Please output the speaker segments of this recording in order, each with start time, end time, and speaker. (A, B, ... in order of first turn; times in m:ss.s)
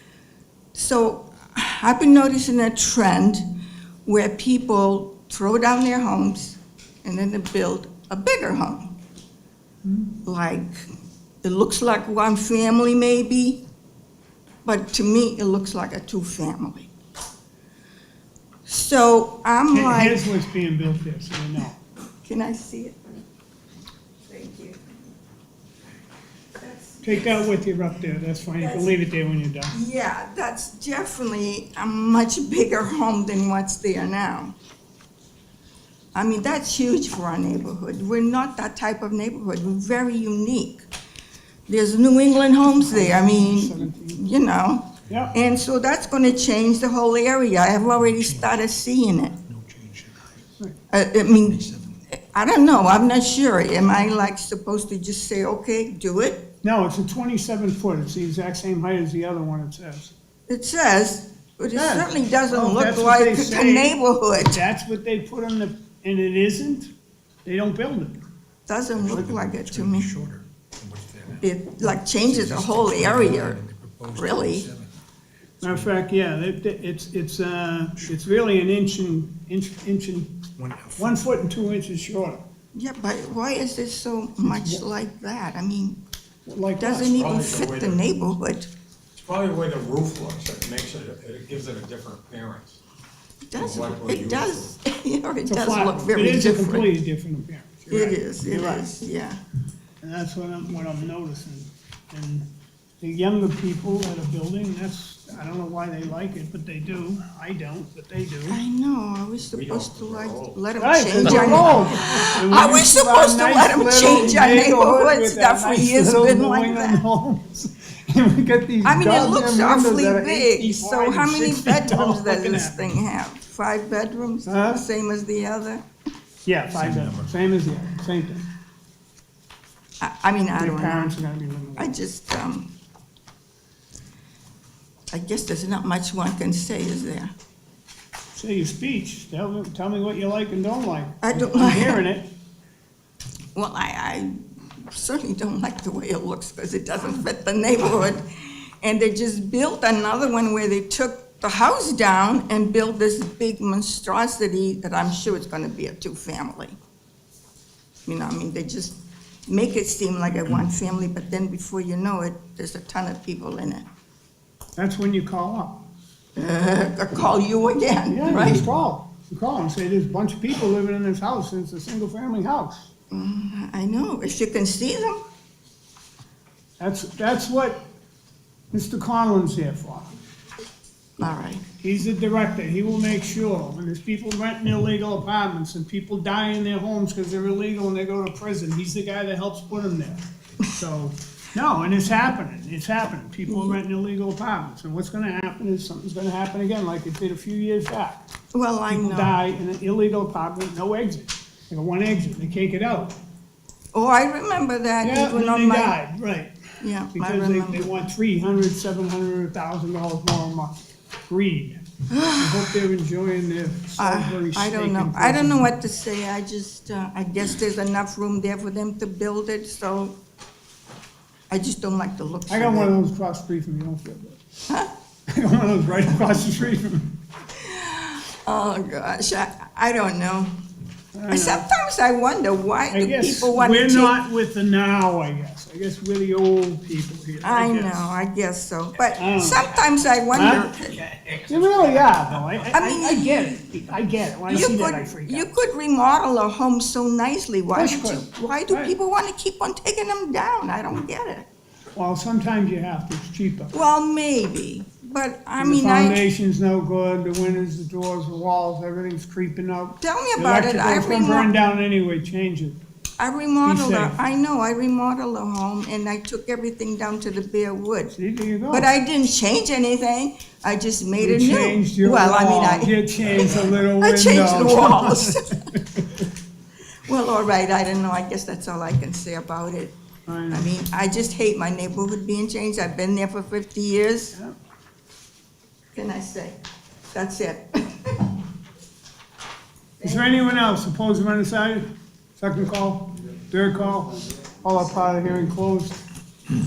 0:00.7-0:03.5 A
0:04.0-0:09.0 A
0:09.8-0:10.2 B
0:10.2-0:10.7 A
0:11.4-0:13.6 A
0:14.6-0:16.9 A
0:18.6-0:20.3 A
0:19.7-0:21.8 B
0:22.2-0:23.0 A
0:24.3-0:24.8 A
0:26.6-0:27.5 A
0:27.0-0:29.8 B
0:28.6-0:29.0 A
0:29.7-0:34.5 A
0:36.1-0:40.8 A
0:41.7-0:49.4 A
0:42.7-0:44.2 B
0:45.1-0:45.3 B
0:48.1-0:48.6 C
0:49.5-0:50.5 C
0:50.9-0:56.5 A
0:51.5-0:52.0 C
0:56.6-1:00.1 B
1:00.5-1:04.6 A
1:01.8-1:06.9 B
1:07.4-1:08.2 B
1:08.7-1:10.1 A
1:09.0-1:14.9 C
1:11.4-1:13.6 A
1:14.2-1:14.7 A
1:15.6-1:22.4 B
1:20.6-1:21.2 C
1:22.7-1:26.0 A
1:24.4-1:24.8 B
1:26.5-1:27.2 B
1:26.8-1:28.7 A
1:27.0-1:28.0 D
1:29.2-1:32.8 D
1:33.5-1:36.9 A
1:33.6-1:34.7 D
1:35.5-1:38.9 B
1:37.9-1:39.4 A
1:40.0-1:42.5 B
1:43.0-1:48.6 B
1:48.5-1:57.0 A
1:49.5-1:50.6 D
1:50.8-2:03.0 B
1:51.2-1:51.8 D
1:58.8-2:05.8 A
2:04.5-2:04.8 B
2:06.5-2:08.4 B
2:06.8-2:07.3 D
2:10.0-2:11.2 A
2:10.6-2:12.0 B
2:11.8-2:12.7 A
2:15.1-2:17.3 A
2:18.3-2:22.3 B
2:21.2-2:22.0 A
2:23.6-2:36.8 A
2:38.1-2:39.0 A
2:39.5-2:43.9 A
2:44.8-2:45.9 B
2:46.4-2:48.7 A
2:48.1-2:52.9 B
2:53.1-2:55.2 A
2:56.8-2:57.8 B
2:58.7-3:00.1 B
3:01.2-3:01.6 A
3:01.8-3:18.3 B
3:13.5-3:13.8 A
3:18.5-3:19.4 A
3:18.9-3:23.2 B
3:23.9-3:26.0 A
3:25.0-3:26.6 B
3:26.8-3:28.0 A
3:27.1-3:31.8 B
3:32.1-3:32.8 A
3:32.4-3:35.7 B
3:34.0-3:40.2 A
3:41.5-3:42.9 A
3:42.5-3:44.4 B
3:44.7-3:44.9 A
3:45.3-3:47.2 B
3:47.6-3:50.5 A
3:51.1-3:51.7 B
3:51.3-3:54.2 A
3:52.9-3:58.1 B
3:57.4-4:01.0 A
3:59.2-3:59.7 B
4:00.3-4:00.7 B
4:00.9-4:02.6 C
4:01.5-4:05.5 B
4:02.7-4:03.6 A
4:04.5-4:11.5 A
4:07.7-4:08.9 B
4:12.0-4:13.7 B
4:13.7-4:16.3 A
4:15.6-4:22.8 B
4:20.0-4:21.5 A
4:23.2-4:28.2 A
4:23.6-4:24.2 B
4:28.1-4:28.9 B
4:28.7-4:35.6 A
4:31.2-4:36.3 B
4:37.0-4:40.0 A
4:40.3-4:40.7 B
4:40.5-4:44.4 A
4:45.9-4:46.6 A
4:47.1-4:48.4 A
4:50.0-4:50.3 A
4:50.0-4:56.0 B